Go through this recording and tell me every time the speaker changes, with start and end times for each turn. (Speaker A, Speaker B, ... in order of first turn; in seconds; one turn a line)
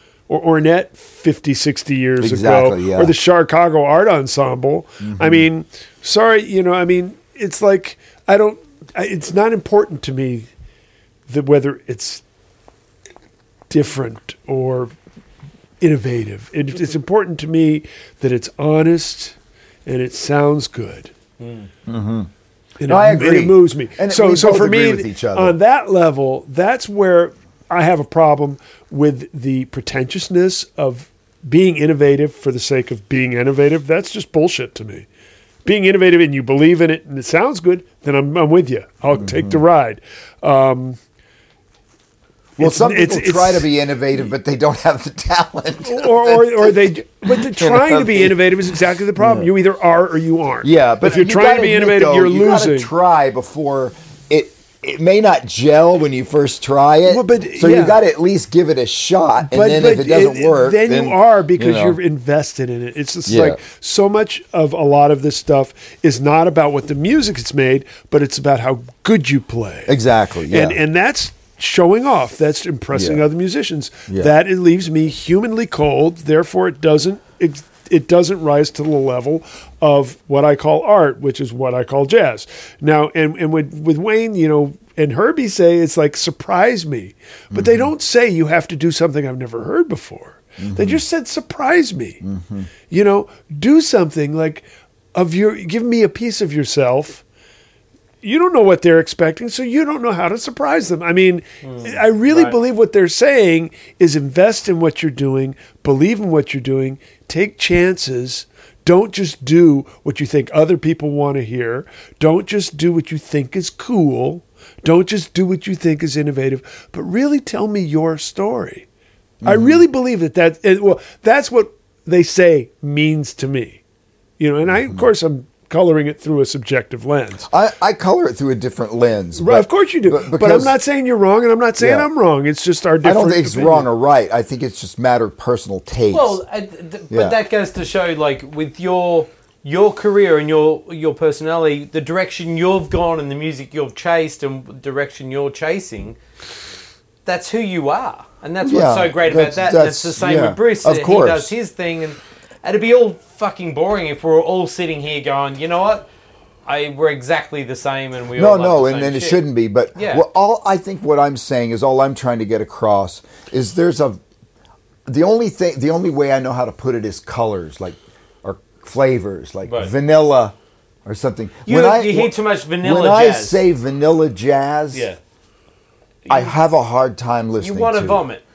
Speaker A: 0.3-10.5
Speaker B: 2.2-3.1
Speaker B: 5.0-5.5
Speaker A: 11.3-12.2
Speaker A: 13.7-14.9
Speaker A: 15.8-21.1
Speaker C: 21.4-21.7
Speaker B: 21.9-22.3
Speaker A: 22.8-35.1
Speaker B: 22.9-25.6
Speaker A: 35.6-41.0
Speaker B: 39.1-39.6
Speaker A: 42.6-43.7
Speaker B: 42.6-48.4
Speaker A: 45.8-52.9
Speaker B: 49.1-49.5
Speaker B: 50.6-62.0
Speaker A: 57.1-58.0
Speaker A: 59.5-70.0
Speaker B: 63.2-63.6
Speaker B: 69.9-70.8
Speaker A: 70.5-92.2
Speaker B: 72.9-73.2
Speaker B: 87.5-87.9
Speaker B: 90.6-91.0
Speaker B: 92.2-92.7
Speaker A: 92.9-97.2
Speaker A: 98.2-118.9
Speaker C: 101.6-102.6
Speaker B: 119.4-119.8
Speaker A: 119.4-123.8
Speaker A: 124.4-127.5
Speaker B: 124.7-125.1
Speaker B: 127.5-130.8
Speaker A: 129.3-133.9
Speaker B: 131.8-132.1
Speaker B: 133.0-136.4
Speaker C: 136.1-146.2
Speaker B: 137.1-137.4
Speaker C: 147.2-156.1
Speaker B: 148.6-151.5
Speaker C: 156.7-159.4
Speaker B: 158.3-164.2
Speaker C: 159.9-160.2
Speaker B: 165.1-175.1
Speaker C: 169.6-169.9
Speaker C: 171.7-173.6
Speaker C: 174.9-175.2
Speaker C: 176.3-176.5
Speaker B: 176.3-178.2
Speaker C: 177.6-178.4